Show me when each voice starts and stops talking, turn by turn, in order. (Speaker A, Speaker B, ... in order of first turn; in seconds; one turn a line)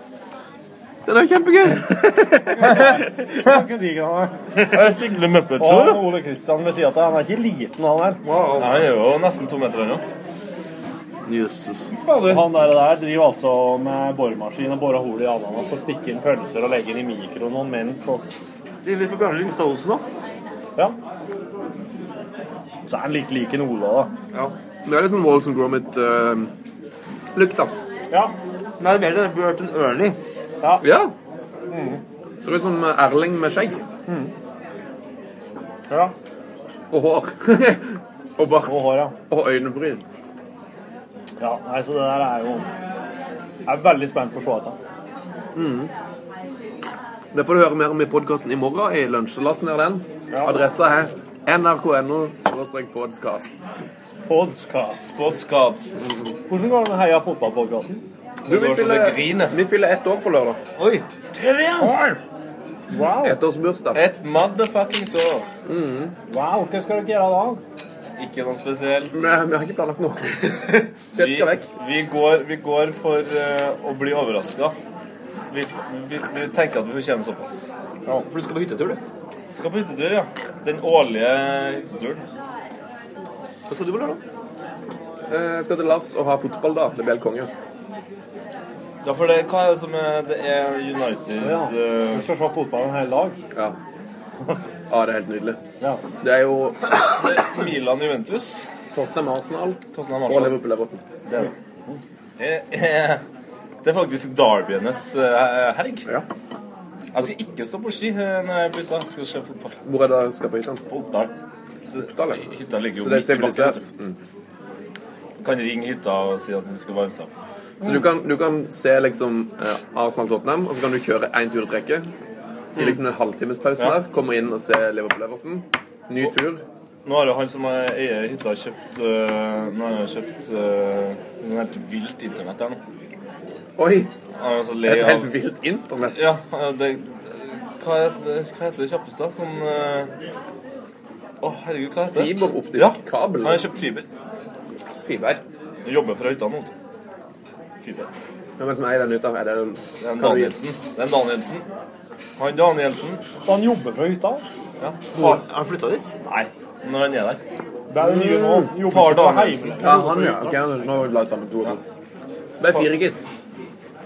Speaker A: 1.1-2.4
Speaker B: 2.6-4.9
Speaker C: 4.6-6.1
Speaker B: 5.5-8.2
Speaker D: 8.2-8.9
Speaker C: 8.6-10.0
Speaker A: 11.2-11.9
Speaker C: 11.9-12.5
Speaker B: 12.2-18.5
Speaker D: 18.8-20.0
Speaker B: 22.9-24.1
Speaker A: 24.8-26.5
Speaker D: 27.3-27.7
Speaker B: 28.1-28.3
Speaker D: 28.8-30.2
Speaker B: 30.6-30.9
Speaker A: 30.8-31.1
Speaker B: 31.7-32.0
Speaker A: 32.4-33.8
Speaker B: 34.1-34.3
Speaker B: 35.9-36.1
Speaker A: 36.9-40.0
Speaker B: 38.6-39.1
Speaker B: 41.4-42.7
Speaker B: 43.6-44.8
Speaker A: 45.5-45.9
Speaker A: 47.3-53.8
Speaker B: 50.3-50.7
Speaker B: 54.2-55.3
Speaker C: 55.1-56.2
Speaker B: 56.5-58.0
Speaker C: 58.4-59.6
Speaker A: 58.5-60.6
Speaker D: 60.8-61.0
Speaker B: 61.7-62.2
Speaker B: 62.9-63.4
Speaker A: 63.2-64.0
Speaker C: 63.9-65.5
Speaker A: 65.7-66.1
Speaker B: 66.3-67.6
Speaker C: 68.2-69.1
Speaker A: 69.1-70.6
Speaker A: 71.1-71.7
Speaker C: 71.2-74.8
Speaker C: 75.5-78.2
Speaker D: 78.2-79.0
Speaker C: 79.5-82.2
Speaker D: 83.7-84.2
Speaker A: 85.3-87.5
Speaker C: 89.0-92.2
Speaker B: 91.4-93.4
Speaker A: 94.9-95.6
Speaker A: 96.2-96.8
Speaker C: 97.2-98.7
Speaker A: 98.9-101.0
Speaker C: 99.9-100.7
Speaker B: 101.3-102.0
Speaker C: 102.4-103.2
Speaker C: 103.8-106.1
Speaker C: 107.1-109.7
Speaker A: 109.8-110.8
Speaker C: 110.9-111.3
Speaker C: 111.9-113.9
Speaker A: 112.0-112.4
Speaker A: 113.0-114.2
Speaker C: 115.4-117.3
Speaker A: 117.8-122.1
Speaker A: 122.8-126.6
Speaker C: 127.0-132.8
Speaker A: 133.8-134.1
Speaker C: 134.3-135.3
Speaker A: 134.8-136.2
Speaker C: 136.1-140.1
Speaker C: 141.4-144.1
Speaker A: 142.1-143.7
Speaker A: 145.0-145.4
Speaker C: 145.8-146.7
Speaker C: 147.8-148.1
Speaker A: 148.6-150.6
Speaker C: 150.0-151.6
Speaker C: 152.4-153.2
Speaker B: 153.4-154.4
Speaker C: 154.8-155.4
Speaker D: 155.1-156.1
Speaker C: 156.2-157.4
Speaker B: 157.9-160.6
Speaker A: 158.0-158.7
Speaker C: 158.7-159.9
Speaker A: 159.8-161.8
Speaker A: 162.6-163.2